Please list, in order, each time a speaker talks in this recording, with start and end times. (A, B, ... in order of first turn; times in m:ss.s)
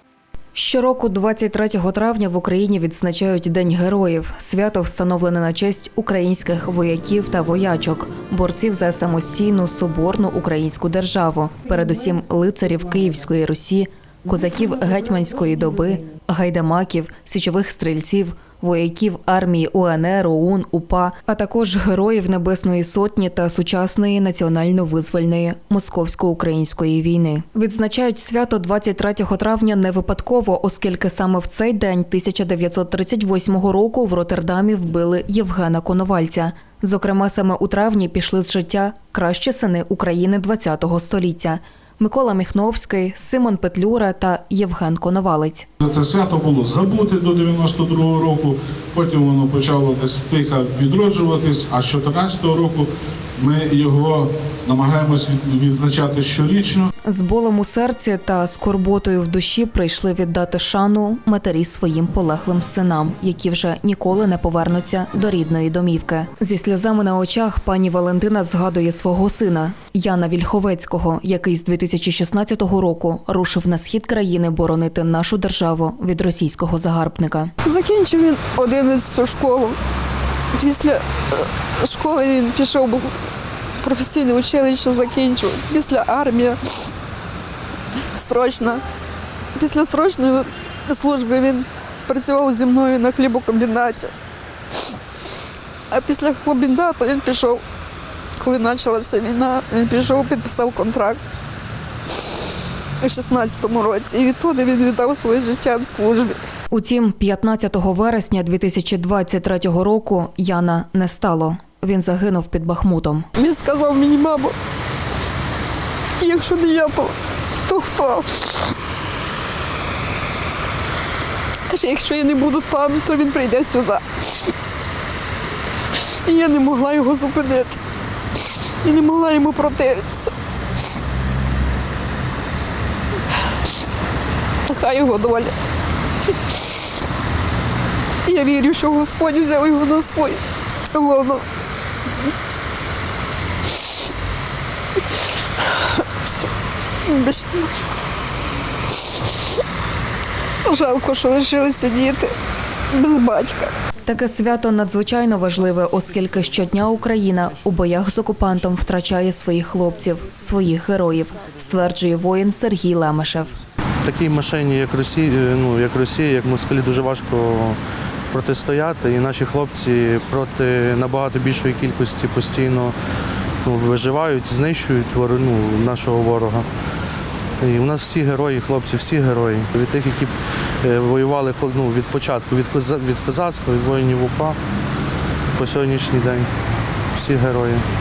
0:00.5-0:45.7 A
0:45.8-0:56.9 B
0:57.0-1:17.5 A
1:17.6-1:19.8 C
1:20.5-1:23.2 C
1:23.8-1:26.9 C
1:28.1-1:28.8 C
1:29.6-1:34.1 C
1:35.9-1:37.6 C
1:38.4-1:41.2 C
1:43.0-1:46.4 C
1:46.7-1:53.2 A
1:53.4-1:54.6 C
1:56.2-1:58.7 C
2:01.7-2:04.5 C
2:06.0-2:07.8 C
2:08.8-2:10.3 C
2:14.6-2:15.5 C
2:18.2-2:21.4 C
2:27.0-2:27.9 C
2:30.6-2:32.3 C
2:32.9-2:33.8 C
2:34.0-2:43.5 A
2:44.0-2:47.8 D
2:48.3-2:53.0 D
2:53.6-2:56.7 D
2:57.6-3:04.6 D
3:05.5-3:06.5 D
3:07.1-3:07.8 D